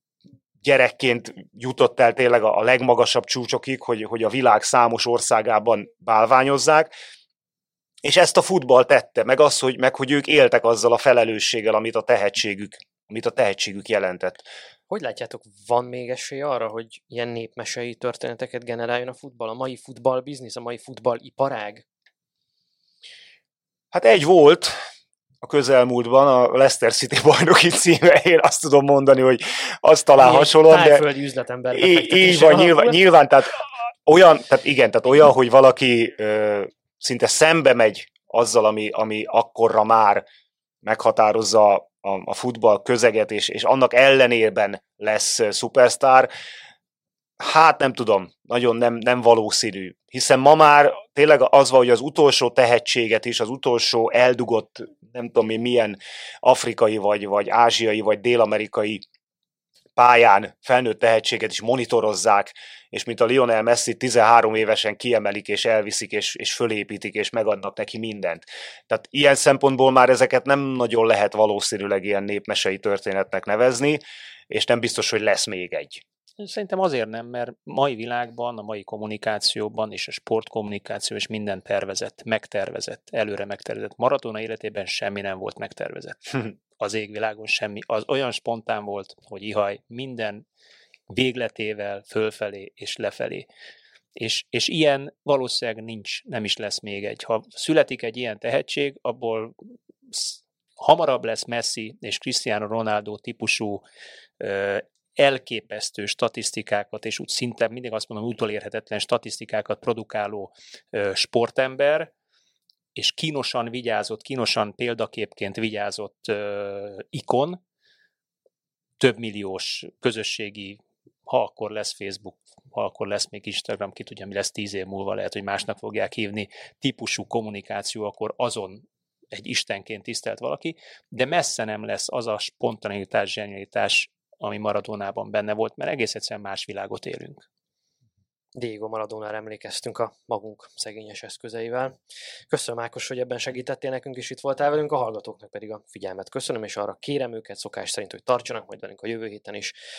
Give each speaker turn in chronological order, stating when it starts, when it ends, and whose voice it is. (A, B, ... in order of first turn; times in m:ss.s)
0:00.6-0:06.9 A
0:08.0-0:14.4 A
0:14.9-0:21.8 B
0:23.9-0:24.7 A
0:25.4-0:31.0 A
0:30.2-0:33.0 B
0:31.7-0:40.3 A
0:40.8-0:46.3 A
0:47.4-0:59.0 A
1:00.0-1:16.0 A
1:16.4-1:30.4 C
1:31.1-1:33.5 C
1:34.2-1:39.5 C
1:40.1-1:43.8 C
1:44.4-1:52.1 C
1:53.0-1:57.6 C
1:59.0-2:17.5 C
2:18.6-2:22.0 B
2:22.5-2:29.7 B